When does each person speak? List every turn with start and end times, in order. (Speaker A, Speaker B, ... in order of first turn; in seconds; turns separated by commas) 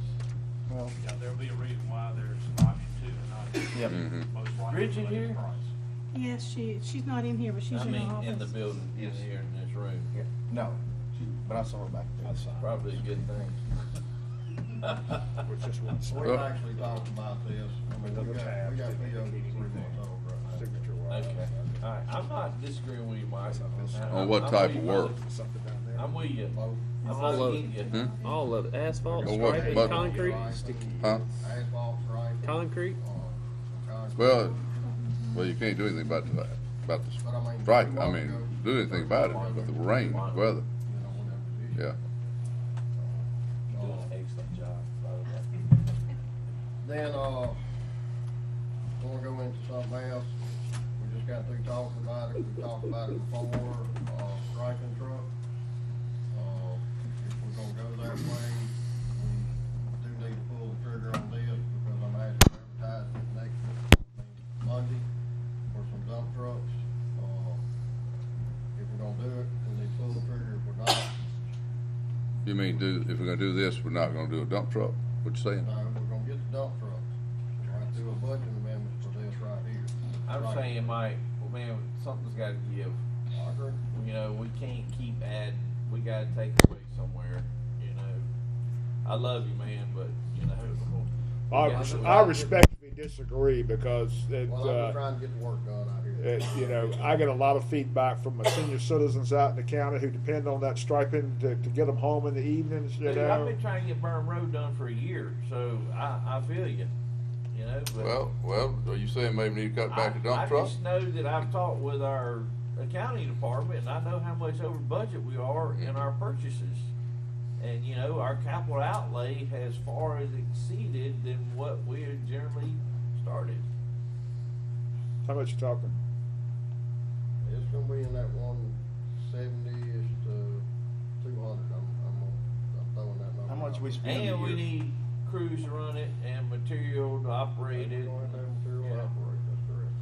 Speaker A: 0.7-1.0, Speaker B: 1.0-5.7, Speaker A: 3.7-4.0, Speaker C: 3.9-4.3, Speaker D: 4.6-5.4, Speaker E: 6.1-8.6, Speaker D: 7.7-10.1, Speaker A: 8.9-9.2, Speaker A: 10.1-12.5, Speaker F: 12.2-13.0, Speaker D: 12.6-13.7, Speaker D: 14.8-15.2, Speaker F: 15.4-17.1, Speaker G: 16.1-20.6, Speaker C: 16.2-16.5, Speaker F: 18.0-21.8, Speaker D: 20.4-25.1, Speaker F: 23.5-26.4, Speaker C: 24.1-25.1, Speaker D: 25.9-28.0, Speaker G: 26.5-27.6, Speaker E: 27.0-28.2, Speaker H: 27.1-27.7, Speaker C: 27.8-28.2, Speaker H: 28.2-30.6, Speaker G: 29.1-34.6, Speaker C: 29.2-30.1, Speaker F: 30.6-31.0, Speaker H: 32.4-33.0, Speaker C: 34.2-34.6, Speaker C: 35.3-40.7, Speaker G: 37.2-40.3, Speaker D: 39.4-40.5, Speaker G: 40.8-42.0, Speaker G: 43.7-44.1, Speaker D: 43.7-45.5, Speaker G: 46.8-47.6, Speaker G: 49.0-50.4, Speaker G: 51.0-55.3, Speaker G: 56.3-65.1, Speaker G: 65.7-67.6, Speaker G: 68.8-71.1, Speaker C: 72.5-75.7, Speaker G: 75.6-81.0, Speaker D: 80.3-83.0, Speaker G: 83.3-83.8, Speaker D: 83.9-88.3, Speaker D: 89.0-92.4, Speaker F: 91.5-95.0, Speaker G: 91.7-92.6, Speaker G: 94.5-97.3, Speaker F: 96.2-103.5, Speaker D: 103.0-106.9, Speaker D: 107.5-108.2, Speaker C: 108.0-110.8, Speaker D: 109.9-116.9, Speaker C: 115.7-116.1, Speaker D: 117.6-123.7, Speaker F: 125.2-126.0, Speaker G: 127.4-130.7, Speaker G: 131.2-134.3, Speaker A: 133.5-134.6, Speaker D: 134.0-139.1, Speaker G: 137.7-139.9